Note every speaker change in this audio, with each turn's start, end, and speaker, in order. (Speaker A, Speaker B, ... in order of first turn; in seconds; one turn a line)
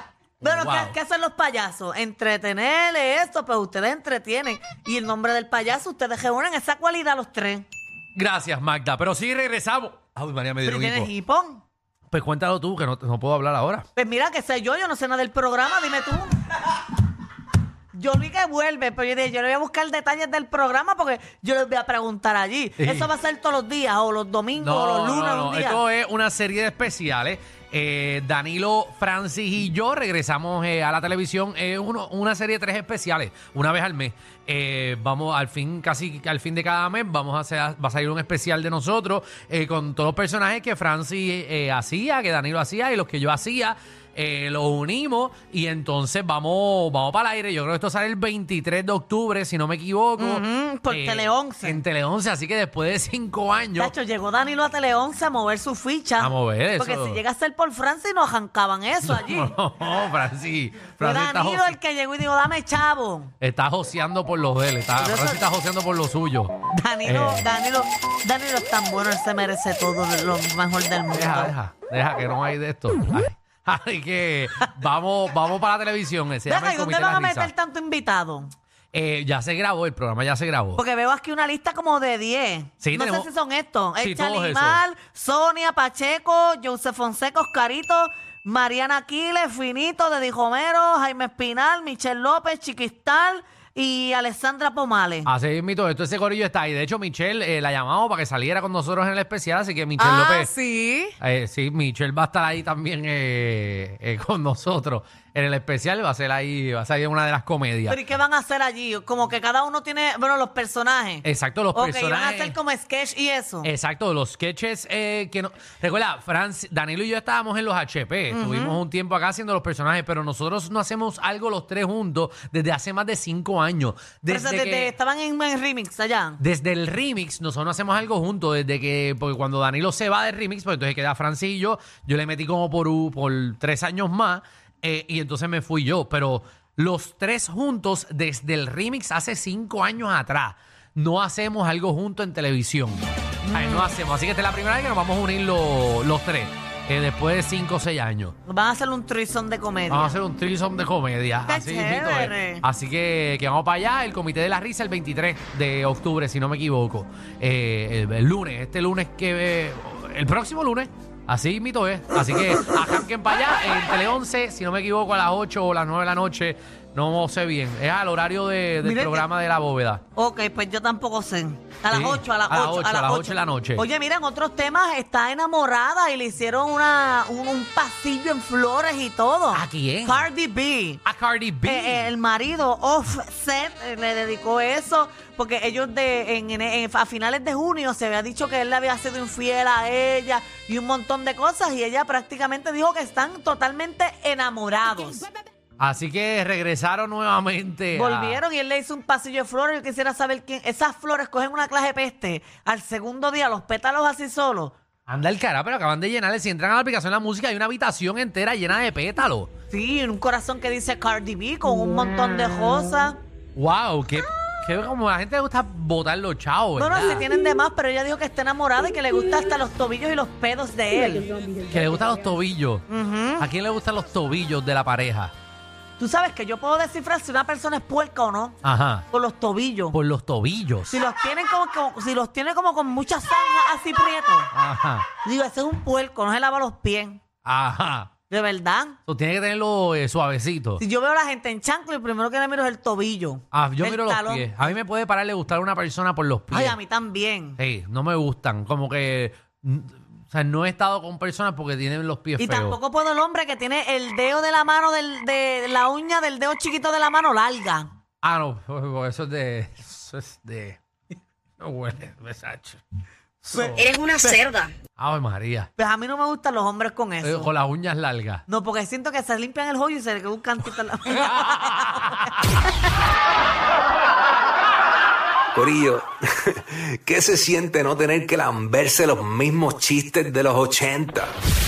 Speaker A: 0.4-1.0
Speaker B: 0.4-7.7
Speaker A: 8.1-11.1
Speaker B: 10.6-11.6
Speaker A: 12.1-13.9
Speaker B: 14.0-16.4
Speaker B: 17.9-25.8
Speaker A: 22.8-23.1
Speaker A: 24.6-53.9
Speaker B: 50.2-51.8
Speaker B: 53.8-59.5
Speaker A: 56.2-57.2
Speaker A: 59.0-61.8
Speaker B: 61.0-63.3
Speaker A: 63.4-67.5
Speaker B: 65.0-65.5
Speaker B: 66.7-71.5
Speaker A: 71.1-77.5
Speaker B: 76.5-78.5
Speaker A: 78.9-80.8
Speaker B: 80.8-95.3
Speaker A: 82.8-83.3
Speaker A: 84.0-84.8
Speaker A: 95.2-100.5
Speaker B: 100.0-101.2
Speaker A: 101.2-108.0
Speaker B: 107.9-113.7
Speaker A: 111.2-112.5
Speaker A: 113.6-124.9
Speaker B: 118.3-118.8
Speaker B: 124.3-126.4
Speaker A: 126.4-148.3
Speaker B: 143.5-143.9
Speaker B: 148.5-150.1
Speaker A: 149.9-170.0
Speaker B: 151.5-152.6
Speaker B: 168.8-169.2
Speaker B: 170.1-181.0
Speaker A: 171.9-173.8
Speaker A: 179.5-180.2
Speaker A: 181.0-182.1
Speaker B: 181.6-195.2
Speaker A: 195.8-198.4
Speaker B: 197.9-204.7
Speaker A: 205.1-209.5
Speaker B: 209.7-213.2
Speaker A: 213.6-217.2
Speaker B: 216.8-221.3
Speaker A: 221.7-222.9
Speaker B: 222.9-223.5
Speaker A: 223.4-225.3
Speaker B: 226.0-228.6
Speaker A: 228.6-229.0
Speaker B: 229.1-230.0
Speaker A: 229.9-231.0
Speaker B: 230.9-234.5
Speaker A: 234.5-235.1
Speaker B: 235.2-237.2
Speaker A: 237.4-238.1
Speaker B: 238.3-239.0
Speaker A: 239.1-240.8
Speaker B: 240.8-244.6
Speaker A: 243.5-246.8
Speaker B: 246.5-247.6
Speaker A: 247.6-252.8
Speaker B: 252.4-257.9
Speaker A: 258.2-260.8
Speaker A: 261.6-262.8
Speaker A: 263.4-264.1
Speaker B: 263.5-264.7
Speaker A: 265.0-265.7
Speaker B: 265.8-267.5
Speaker A: 267.2-268.4
Speaker B: 268.5-272.6
Speaker A: 271.2-272.4
Speaker C: 275.6-281.3